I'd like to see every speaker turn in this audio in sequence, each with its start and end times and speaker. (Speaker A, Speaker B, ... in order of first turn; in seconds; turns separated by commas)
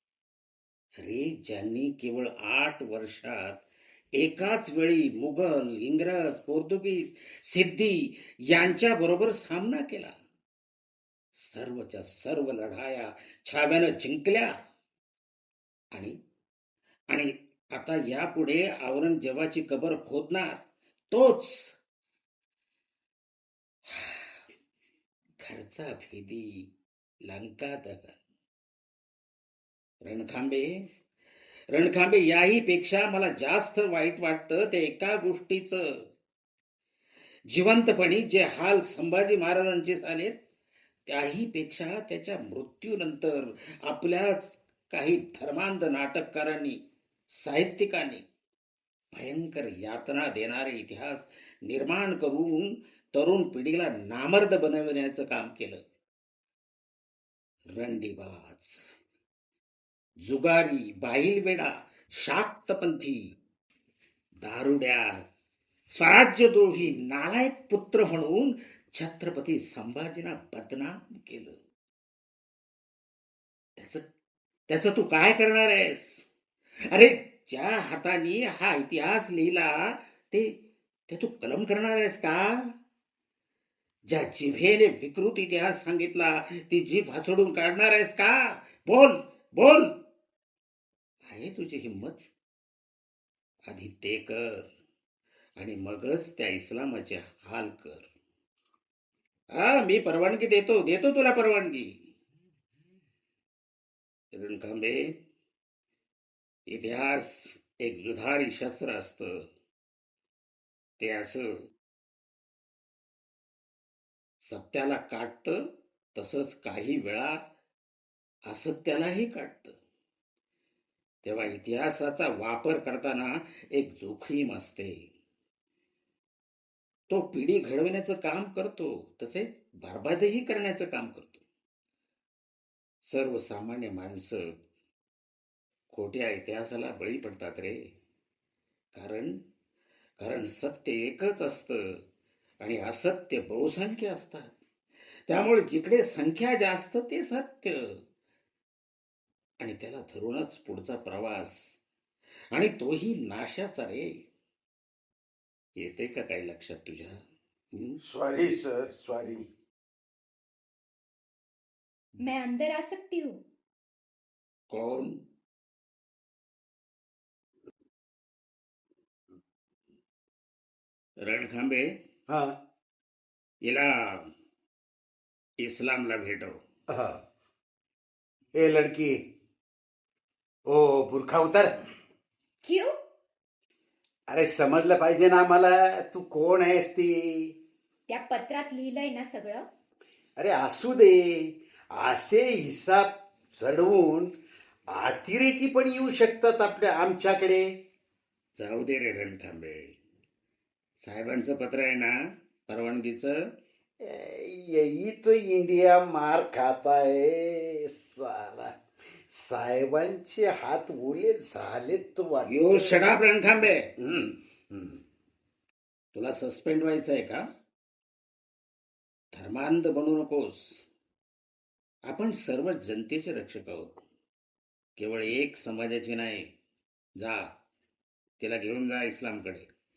Speaker A: 1.0-3.6, Speaker A: 4.2-10.1, Speaker A: 11.3-14.6, Speaker A: 17.1-21.8, Speaker A: 23.9-24.4, Speaker A: 25.4-26.7, Speaker A: 27.2-28.2, Speaker A: 30.0-30.9, Speaker A: 31.7-36.1, Speaker A: 37.5-40.4, Speaker A: 41.1-46.8, Speaker A: 47.3-48.2, Speaker A: 49.1-55.8, Speaker A: 57.7-58.9, Speaker A: 60.2-63.2, Speaker A: 64.4-65.2, Speaker A: 65.9-71.5, Speaker A: 73.8-74.0, Speaker A: 74.7-76.2, Speaker A: 76.9-80.5, Speaker A: 81.1-82.7, Speaker A: 84.1-90.0, Speaker A: 91.3-92.2, Speaker A: 93.7-94.7, Speaker A: 95.6-98.1, Speaker A: 99.5-101.9, Speaker A: 104.3-105.2, Speaker A: 106.7-109.4, Speaker A: 111.0-111.6, Speaker A: 114.4-115.6, Speaker A: 116.1-117.4, Speaker A: 118.5-119.7, Speaker A: 121.2-125.0, Speaker A: 127.1-131.4, Speaker A: 133.0-134.5, Speaker A: 135.9-137.8, Speaker A: 138.9-139.4, Speaker A: 140.2-142.0, Speaker A: 142.6-144.5, Speaker A: 145.3-148.0, Speaker A: 149.6-151.7, Speaker A: 152.5-154.2, Speaker A: 155.8-157.2, Speaker A: 157.7-158.0, Speaker B: 158.0-159.5, Speaker C: 162.2-163.4, Speaker A: 164.7-165.2, Speaker A: 171.2-171.9, Speaker B: 172.3-172.6, Speaker A: 173.6-174.3, Speaker A: 175.6-176.6, Speaker B: 176.9-177.2, Speaker B: 178.5-179.2, Speaker B: 180.7-181.8, Speaker C: 182.6-182.9, Speaker B: 184.3-187.5, Speaker C: 188.1-189.6, Speaker B: 190.4-194.3, Speaker B: 194.9-197.7, Speaker A: 198.6-199.9, Speaker A: 201.0-202.1, Speaker A: 202.7-203.4, Speaker B: 204.0-208.8, Speaker B: 209.3-213.1, Speaker A: 212.5-213.9, Speaker B: 214.0-215.0, Speaker A: 216.1-217.4, Speaker A: 219.3-220.8, Speaker A: 222.1-224.0, Speaker A: 225.0-226.5, Speaker A: 227.2-227.4, Speaker A: 228.4-229.7